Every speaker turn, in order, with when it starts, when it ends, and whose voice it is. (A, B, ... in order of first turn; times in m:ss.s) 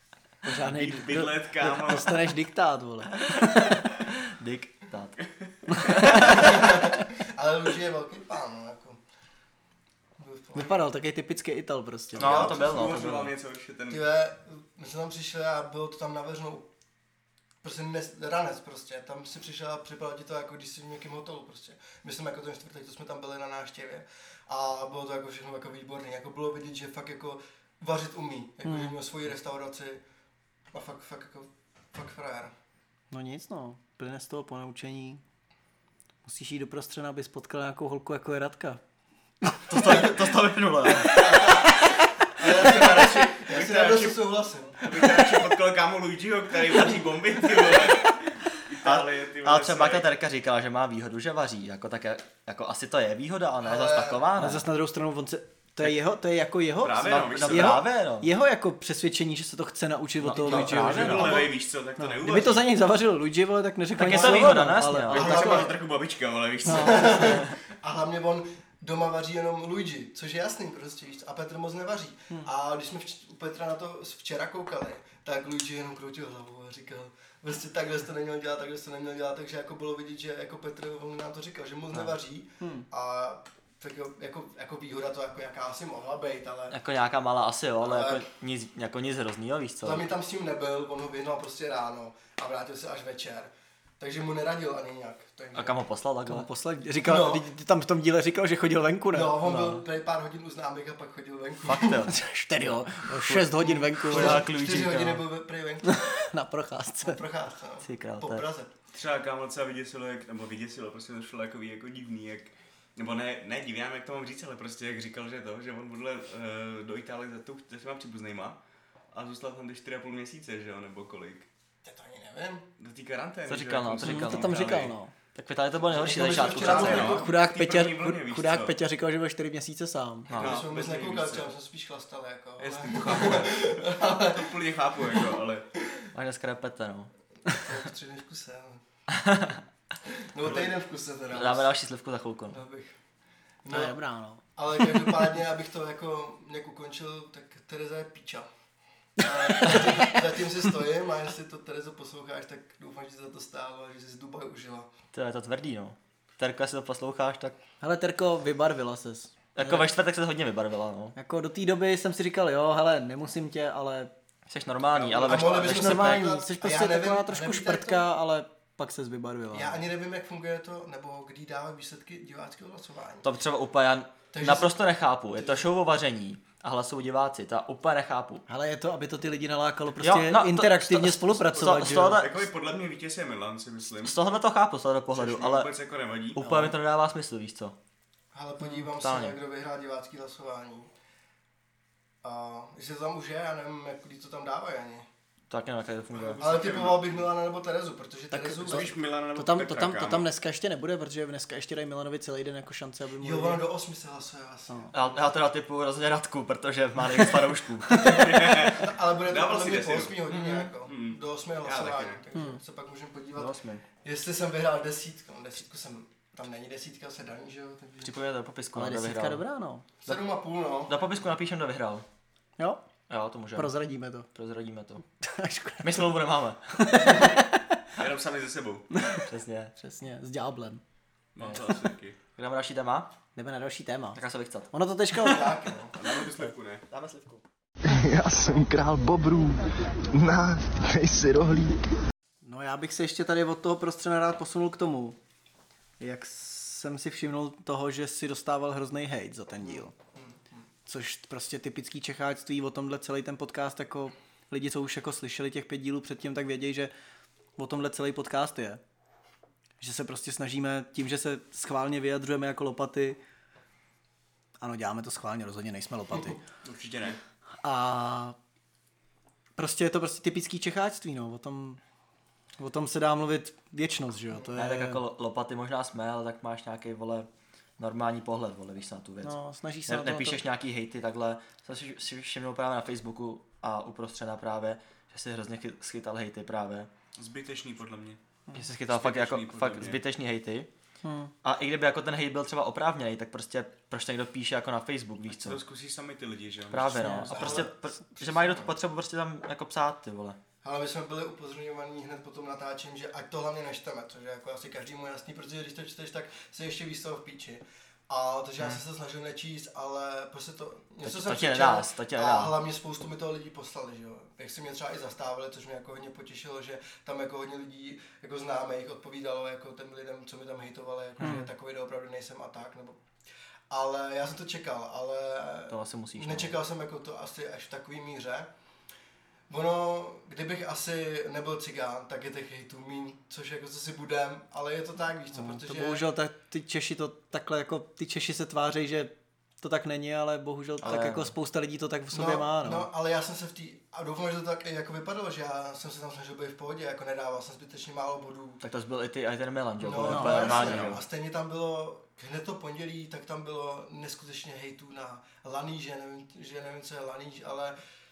0:00.4-0:03.2 A
0:00.6-0:02.3 B
0:03.2-0:05.2 C
0:05.4-0:06.3 B
0:05.8-0:06.8 C
0:06.1-0:09.0 D
0:10.2-0:10.8 D
0:10.6-0:12.3 A
0:12.2-0:13.3 C
0:12.2-0:13.0 D
0:12.2-0:14.1 B
0:13.9-0:16.7 D
0:17.6-0:30.0 D
0:28.7-0:29.0 A
0:30.7-0:32.5 D
0:33.1-0:35.2 A
0:36.2-0:38.8 A
0:39.7-0:41.5 C
0:41.0-0:45.2 D
0:42.6-0:44.2 B
0:44.8-0:50.1 B
0:48.8-0:54.7 C
0:53.6-0:54.3 D
0:54.4-1:01.4 A
0:56.8-0:57.8 B
0:57.0-0:58.3 C
1:00.2-1:01.5 C
1:00.4-1:02.7 B
1:01.1-1:01.5 D
1:02.0-1:05.2 A
1:04.0-1:05.4 C
1:04.1-1:04.4 B
1:05.1-1:07.5 B
1:05.1-1:05.8 D
1:06.7-1:07.3 A
1:06.7-1:26.8 D
1:22.6-1:22.9 A
1:26.7-1:30.1 C
1:27.8-1:28.2 D
1:29.8-1:35.8 D
1:35.5-1:36.5 C
1:36.3-1:39.4 A
1:37.0-1:37.5 D
1:39.1-1:42.1 D
1:39.4-1:39.8 C
1:41.7-1:42.1 C
1:42.1-1:44.4 A
1:43.2-1:43.5 C
1:43.6-1:46.1 D
1:44.1-1:45.2 C
1:45.8-1:47.2 A
1:47.0-1:48.7 D
1:47.8-1:48.4 C
1:48.9-1:58.6 B
1:59.1-2:01.5 B
2:01.8-2:02.7 D
2:02.8-2:05.0 B
2:03.5-2:07.2 C
2:04.0-2:05.1 A
2:05.9-2:07.3 D
2:06.0-2:08.8 B
2:06.8-2:10.3 A
2:10.3-2:10.6 C
2:10.3-2:11.5 B
2:10.4-2:15.2 D
2:12.6-2:15.7 B
2:16.1-2:17.1 C
2:17.5-2:18.8 D
2:19.1-2:19.6 C
2:20.3-2:21.7 D
2:20.4-2:20.7 B
2:21.3-2:22.6 C
2:22.5-2:23.0 D
2:23.6-2:24.0 D
2:23.7-2:24.4 A
2:24.6-2:28.5 D
2:29.2-2:34.9 D
2:29.6-2:30.2 A
2:35.1-2:37.6 C
2:37.8-2:39.9 A
2:39.6-2:41.2 C
2:41.2-2:44.1 A
2:44.5-2:46.3 C
2:45.0-2:48.1 D
2:45.5-2:49.8 A
2:49.5-2:53.3 D
2:53.2-2:58.4 C
2:54.3-2:54.8 D
2:55.4-2:55.7 D
2:58.5-3:02.2 A
3:00.0-3:02.5 C
3:02.1-3:04.2 B
3:04.0-3:05.7 C
3:05.1-3:06.6 B
3:06.4-3:07.8 C
3:06.4-3:06.8 A
3:08.3-3:10.9 D
3:09.0-3:09.4 C
3:12.2-3:15.1 D
3:15.5-3:16.4 C
3:16.1-3:17.3 B
3:16.4-3:18.9 D
3:18.3-3:23.6 A
3:18.7-3:20.3 B
3:23.2-3:25.2 D
3:24.9-3:28.0 C
3:27.9-3:28.2 A
3:28.0-3:38.2 D
3:28.0-3:30.2 B
3:30.3-3:30.7 A
3:30.8-3:32.2 B
3:32.3-3:32.6 A
3:33.4-3:33.8 C
3:38.0-3:39.4 C
3:38.7-3:40.2 A
3:40.0-3:41.1 D
3:40.9-3:42.1 C
3:43.1-3:43.8 C
3:43.6-3:44.3 A
3:44.3-3:45.0 C
3:45.2-3:46.2 A
3:45.8-3:47.0 C
3:46.8-3:47.8 A
3:48.0-3:48.9 B
3:48.9-3:50.8 A
3:49.2-3:49.7 C
3:51.4-3:52.2 B
3:52.4-3:53.1 C
3:53.4-3:55.6 A
3:54.2-3:54.7 C
3:55.2-3:56.0 D
3:56.0-3:56.9 B
3:56.9-3:57.4 C
3:58.1-3:59.6 E
4:00.2-4:01.6 E
4:02.4-4:05.2 A
4:06.0-4:09.9 A
4:09.6-4:10.6 D
4:10.9-4:16.9 A
4:17.6-4:18.8 A
4:19.8-4:23.2 A
4:24.6-4:26.4 A
4:26.6-4:27.2 B
4:27.6-4:28.4 A
4:29.6-4:31.8 A
4:32.6-4:35.0 A
4:34.6-4:46.9 C
4:39.2-4:40.4 A
4:47.2-4:48.2 B
4:48.5-4:50.7 C
4:48.9-4:50.0 B
4:51.0-4:51.3 A
4:51.4-4:55.6 C
4:55.3-4:57.5 B
4:56.7-5:00.4 C
4:57.0-4:57.3 A
4:57.3-4:58.8 D
5:00.6-5:23.0 D
5:11.0-5:12.6 C
5:21.2-5:21.5 A
5:23.7-5:28.5 D
5:25.7-5:26.6 C
5:29.5-5:36.1 D
5:35.3-5:42.9 A
5:40.8-5:41.3 C
5:42.1-5:48.6 D
5:48.6-5:51.0 C
5:49.8-5:57.8 D
5:50.1-5:50.6 A
5:50.5-5:51.0 B